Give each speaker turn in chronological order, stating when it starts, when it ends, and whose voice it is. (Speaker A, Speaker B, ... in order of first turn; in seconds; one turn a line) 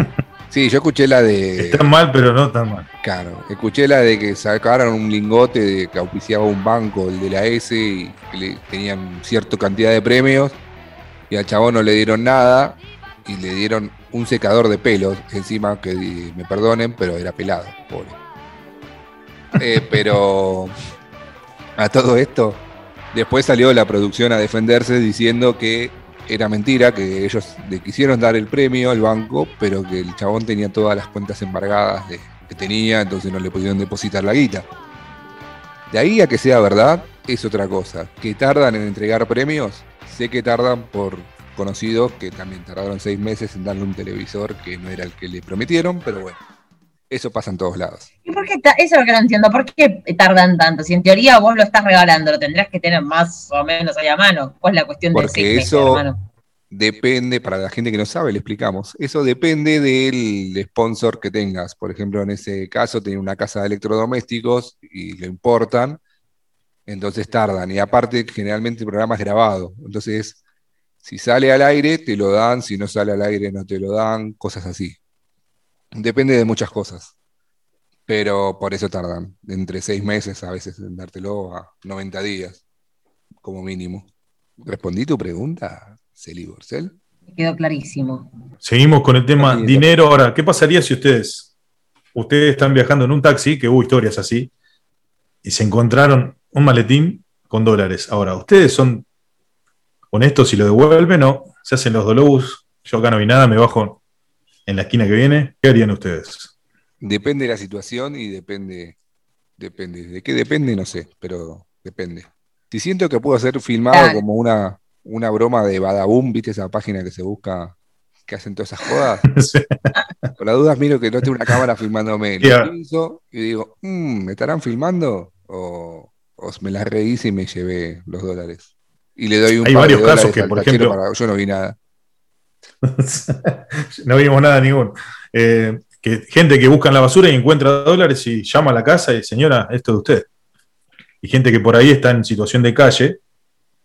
Speaker A: 0.5-1.8
Speaker B: 1.6-2.9
Speaker A: 3.0-10.6
Speaker A: 11.3-18.2
Speaker A: 19.5-20.7
Speaker A: 21.8-34.7
Speaker A: 35.9-46.4
Speaker A: 47.1-48.1
Speaker C: 48.2-56.2
Speaker A: 55.1-56.0
Speaker A: 56.7-66.0
Speaker A: 66.9-70.4
Speaker A: 71.0-75.0
Speaker A: 75.9-77.1
Speaker A: 78.1-82.6
Speaker A: 83.4-84.0
Speaker A: 84.6-86.9
Speaker C: 87.3-88.3
Speaker B: 88.6-91.5
Speaker A: 89.3-89.9
Speaker B: 92.1-94.5
Speaker B: 95.4-99.0
Speaker B: 100.1-104.0
Speaker B: 104.7-106.5
Speaker A: 107.0-109.0
Speaker A: 109.6-119.3
Speaker C: 113.9-114.2
Speaker B: 119.3-119.9
Speaker A: 120.4-131.8
Speaker B: 122.4-122.7
Speaker B: 129.6-131.0
Speaker B: 132.8-140.3
Speaker B: 141.2-143.2